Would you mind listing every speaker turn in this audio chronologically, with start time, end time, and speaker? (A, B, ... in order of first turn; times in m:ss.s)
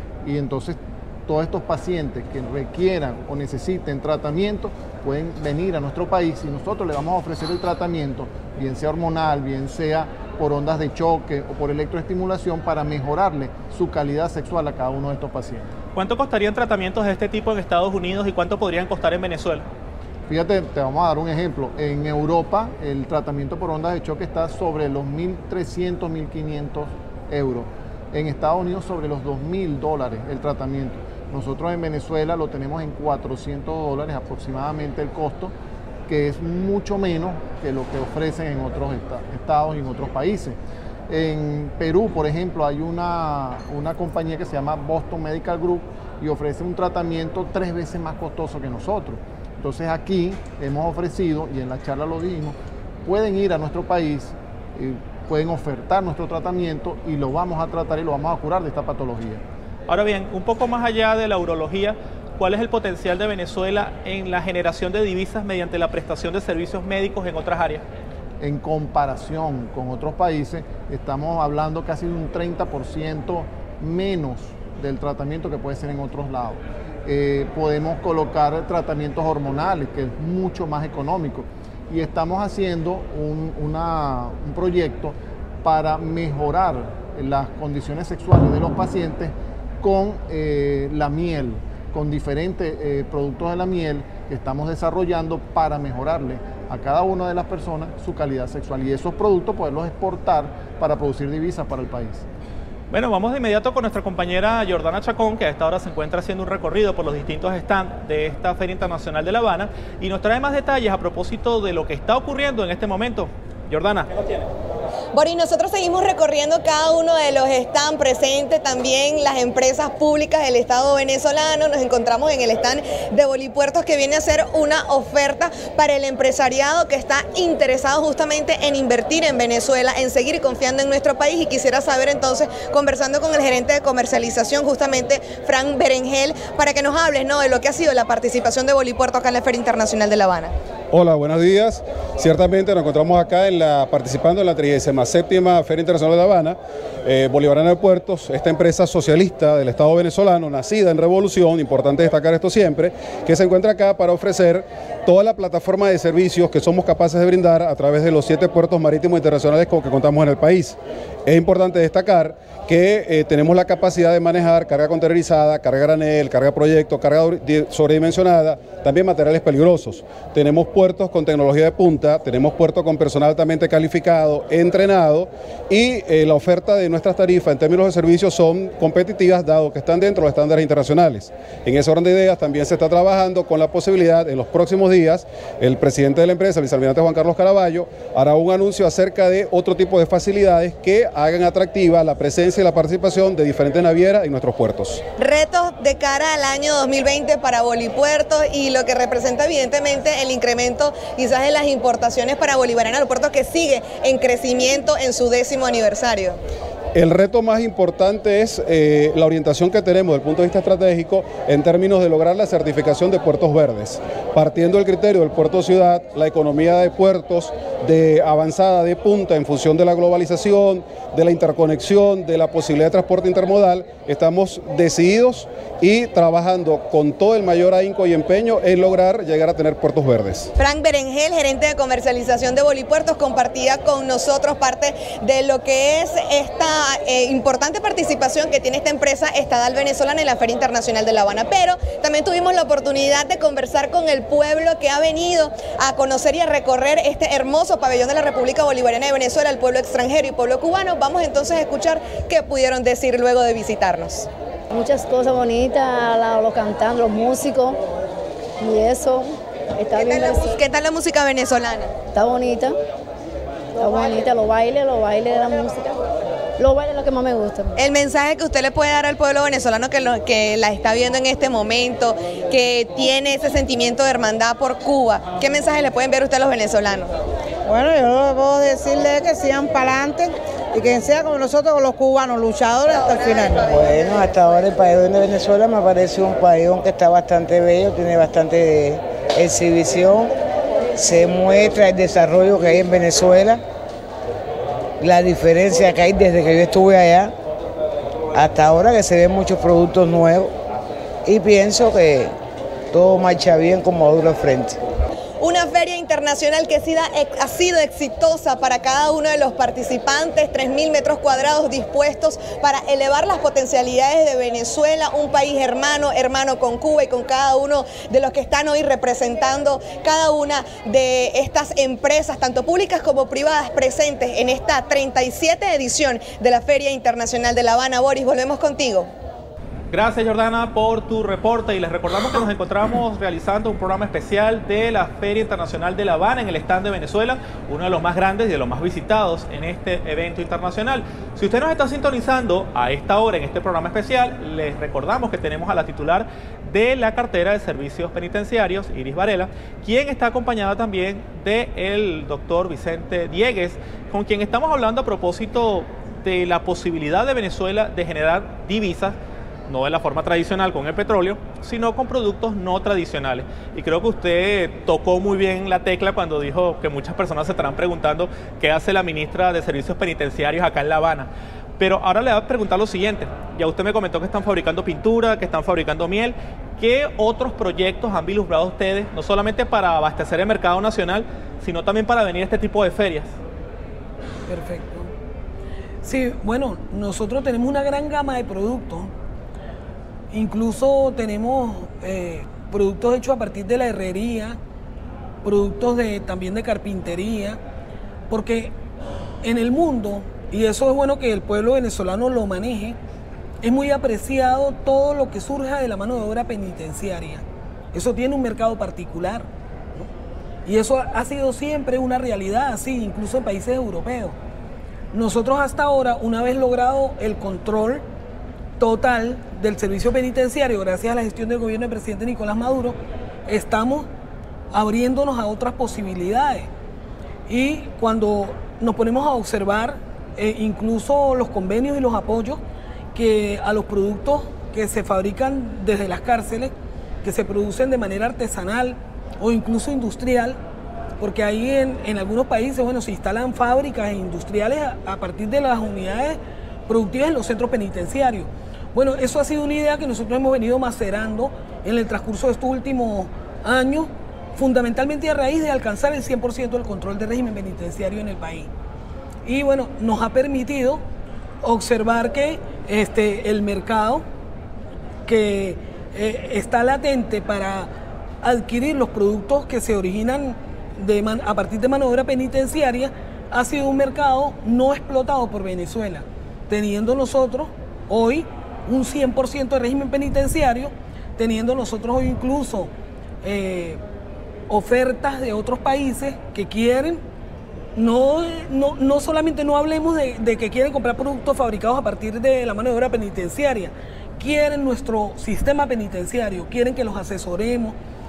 0:00.2-0:15.7 A
0:16.0-0:19.6 B
0:20.3-0:35.5 A
0:36.1-0:40.6 A
0:41.1-0:59.4 A
0:59.9-1:07.8 B
1:08.4-1:42.2 A
1:42.9-1:54.1 B
1:55.1-2:20.5 C
2:20.9-3:15.0 D
3:15.2-3:26.4 C
3:26.9-3:50.5 D
3:50.6-4:14.3 C
4:14.7-4:17.8 E
4:18.6-4:20.6 E
4:19.9-4:21.9 C
4:22.1-4:22.8 E
4:23.8-4:26.0 E
4:26.6-4:27.8 E
4:27.8-4:37.1 C
4:37.6-4:43.7 F
4:42.9-4:43.9 C
4:43.6-4:50.3 G
4:50.9-4:53.6 G
4:55.0-4:57.3 G
4:58.3-5:00.5 G
5:01.2-5:02.3 G
5:02.9-5:04.8 G
5:05.4-5:29.1 C
5:29.9-5:59.2 B
5:59.7-6:23.3 B
6:24.5-6:25.1 H
6:26.0-6:29.1 H
6:30.3-6:34.6 H
6:35.4-6:37.6 H
6:38.3-6:38.7 H
6:39.4-6:43.0 H
6:43.6-6:50.1 H
6:50.6-6:54.3 H
6:55.1-6:58.0 H
6:58.8-7:04.1 H
7:04.7-7:06.7 H
7:07.5-7:12.6 H
7:13.1-7:16.7 H
7:17.2-7:20.6 H
7:21.2-7:38.7 H
7:39.4-7:41.0 H
7:41.6-7:44.2 H
7:45.2-7:47.9 H
7:48.4-8:02.9 H
8:03.4-8:04.0 H
8:04.7-8:07.2 H
8:08.0-8:18.0 H